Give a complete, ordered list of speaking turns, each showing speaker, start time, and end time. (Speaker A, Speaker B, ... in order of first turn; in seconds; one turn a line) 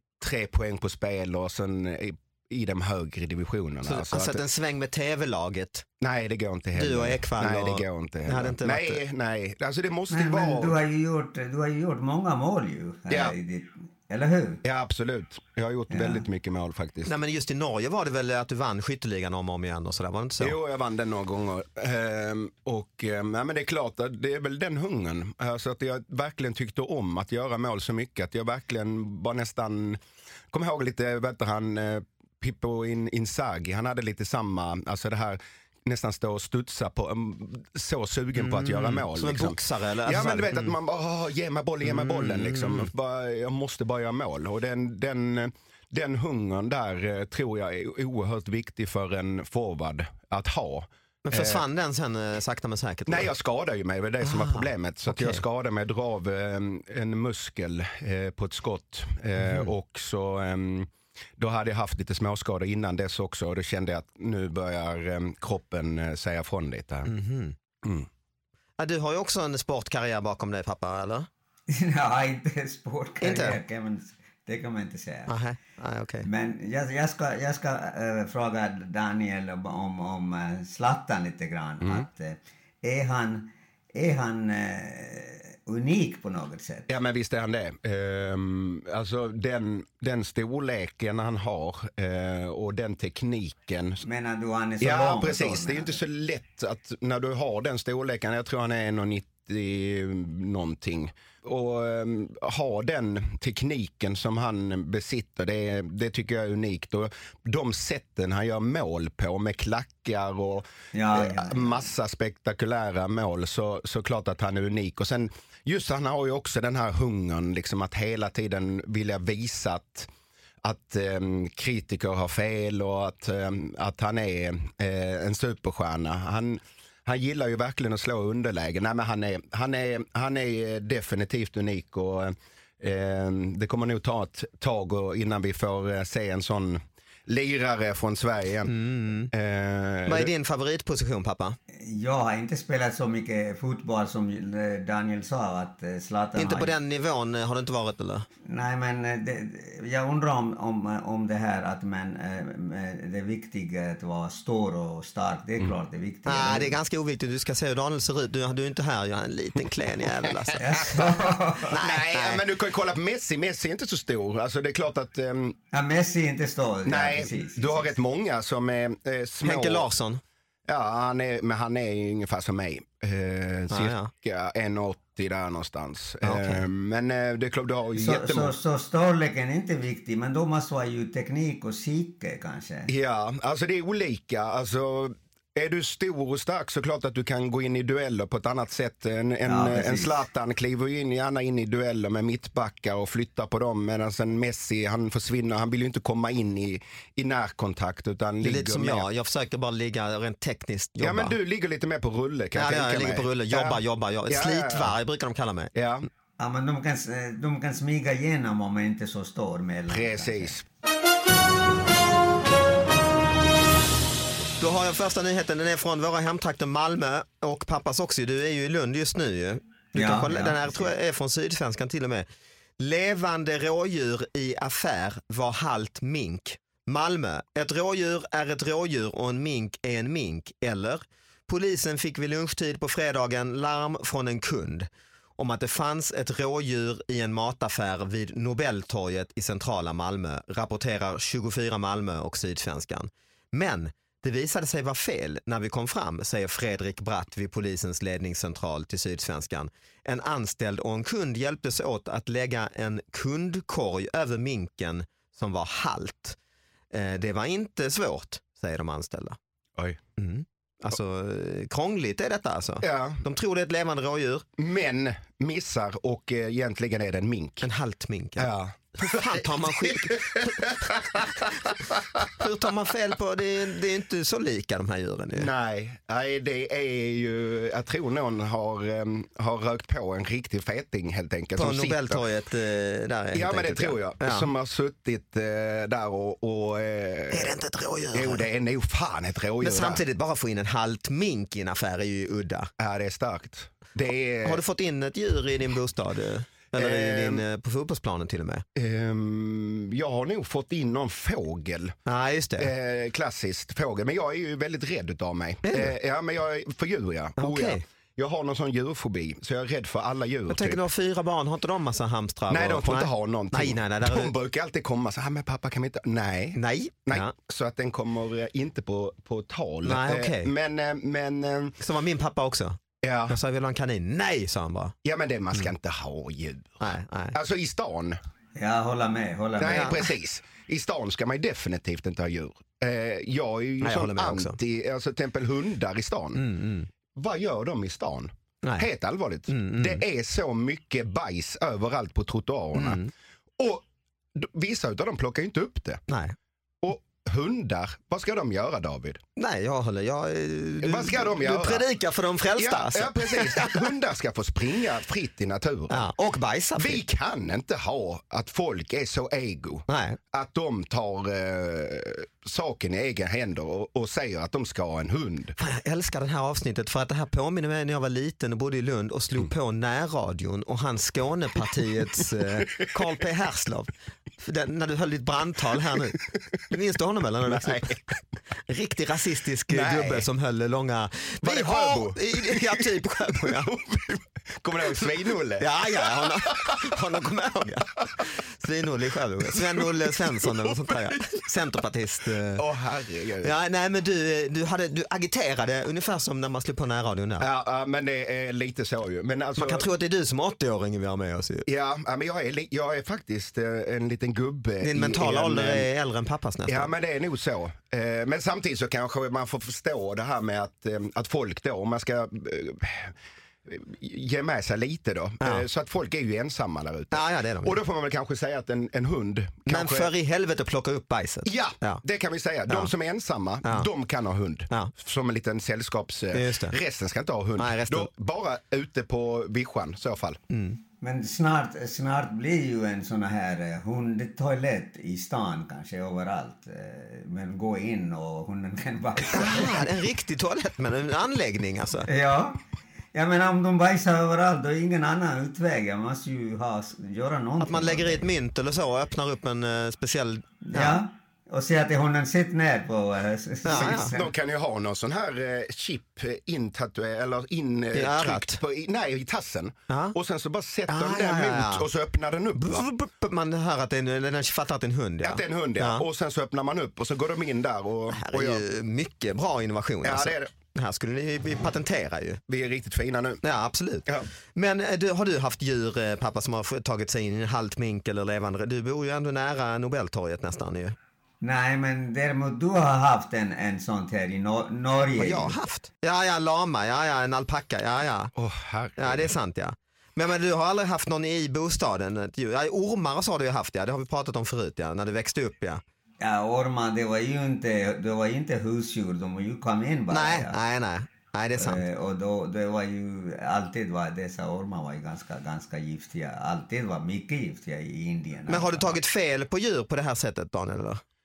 Speaker A: 0.2-4.4
Speaker B: 3.8-5.8
Speaker A: 6.0-10.8
Speaker B: 6.8-9.0
Speaker C: 10.1-14.6
Speaker A: 13.1-13.3
Speaker A: 14.6-17.1
Speaker C: 15.9-16.2
Speaker B: 17.1-20.6
Speaker A: 20.4-30.0
Speaker A: 30.5-51.6
Speaker B: 38.4-40.8
Speaker B: 41.8-42.9
Speaker B: 51.2-53.3
Speaker A: 53.1-67.1
Speaker B: 54.2-55.4
Speaker B: 59.4-59.7
Speaker B: 67.1-67.6
Speaker A: 67.8-68.1
Speaker B: 68.8-71.3
Speaker C: 71.7-75.3
Speaker B: 73.2-73.6
Speaker B: 75.3-76.3
Speaker C: 76.2-86.9
Speaker A: 86.9-94.0
Speaker C: 94.0-96.0
Speaker A: 94.8-120.1
Speaker C: 110.9-111.9
Speaker A: 120.6-138.7
Speaker B: 138.7-139.3
Speaker A: 139.3-140.3
Speaker B: 140.1-141.6
Speaker C: 141.7-146.7
Speaker B: 146.4-148.3
Speaker C: 148.4-156.8
Speaker B: 156.3-161.0
Speaker A: 160.2-160.5
Speaker C: 160.6-161.8
Speaker B: 161.7-162.4
Speaker A: 161.7-165.6
Speaker C: 165.7-167.9
Speaker A: 166.8-169.9
Speaker B: 169.4-170.2
Speaker A: 170.7-178.6
Speaker B: 173.7-174.1
Speaker B: 176.2-176.7
Speaker C: 178.0-182.9
Speaker A: 182.9-199.1
Speaker C: 189.4-190.2
Speaker B: 198.4-201.3
Speaker A: 201.0-205.0
Speaker B: 202.6-205.7
Speaker A: 205.7-206.1
Speaker C: 206.4-210.6
Speaker A: 209.9-210.6
Speaker B: 214.6-222.3
Speaker C: 219.9-220.9
Speaker B: 222.8-256.4
Speaker B: 256.9-259.4
Speaker B: 260.2-264.5
Speaker A: 262.8-263.2
Speaker A: 264.6-267.7
Speaker B: 267.6-275.5
Speaker A: 268.4-272.4
Speaker A: 275.3-282.2
Speaker B: 281.6-284.5
Speaker A: 283.3-287.6
Speaker B: 287.3-288.5
Speaker A: 288.1-290.0
Speaker B: 289.6-292.7
Speaker A: 292.8-294.6
Speaker B: 294.4-298.6
Speaker A: 296.7-297.4
Speaker A: 298.8-301.9
Speaker B: 302.1-302.7
Speaker A: 302.6-310.8
Speaker B: 305.6-305.9
Speaker B: 307.4-307.8
Speaker B: 310.5-314.3
Speaker A: 312.5-321.8
Speaker B: 316.6-317.3
Speaker B: 319.8-320.5
Speaker B: 321.8-324.9
Speaker A: 323.0-323.4
Speaker A: 325.0-328.2
Speaker B: 326.8-327.4
Speaker C: 328.6-330.0
Speaker A: 329.6-336.4
Speaker B: 329.7-330.0
Speaker B: 333.8-334.6
Speaker B: 336.4-336.9
Speaker A: 337.1-343.0
Speaker B: 339.5-340.0
Speaker B: 342.8-343.1
Speaker A: 343.6-343.8
Speaker A: 344.4-346.0
Speaker B: 346.1-346.4
Speaker A: 346.8-349.2
Speaker B: 349.4-353.9
Speaker A: 350.8-351.9
Speaker A: 352.6-356.1
Speaker B: 355.9-357.0
Speaker A: 356.8-365.6
Speaker B: 359.9-360.2
Speaker B: 365.6-378.0
Speaker A: 377.4-378.1
Speaker B: 378.7-383.7
Speaker A: 379.7-380.3
Speaker A: 381.4-387.0
Speaker B: 385.6-392.6
Speaker A: 389.4-391.4
Speaker A: 392.5-393.5
Speaker B: 393.4-397.5
Speaker A: 397.4-399.9
Speaker B: 399.6-401.7
Speaker A: 401.6-405.9
Speaker B: 404.8-406.9
Speaker A: 406.7-413.1
Speaker A: 413.6-420.1
Speaker B: 417.1-417.8
Speaker B: 419.7-422.0
Speaker A: 421.4-430.4
Speaker B: 423.6-423.9
Speaker B: 426.3-426.8
Speaker B: 427.6-428.1
Speaker B: 430.5-430.8
Speaker C: 431.0-439.9
Speaker B: 439.3-442.1
Speaker C: 442.1-442.6
Speaker C: 443.1-448.3
Speaker B: 447.6-451.0
Speaker C: 450.6-454.3
Speaker B: 453.6-454.1
Speaker A: 453.7-462.9
Speaker B: 457.9-458.6
Speaker B: 459.9-460.2
Speaker B: 460.9-461.9
Speaker B: 462.6-466.1
Speaker A: 465.2-468.6
Speaker B: 468.1-472.4
Speaker A: 470.0-470.5
Speaker A: 472.5-473.4
Speaker B: 473.4-480.9
Speaker C: 481.4-485.6
Speaker B: 485.2-488.3
Speaker A: 488.4-489.4
Speaker B: 489.0-495.8
Speaker C: 496.2-500.6
Speaker B: 500.1-501.8
Speaker C: 501.6-509.0
Speaker B: 508.5-511.0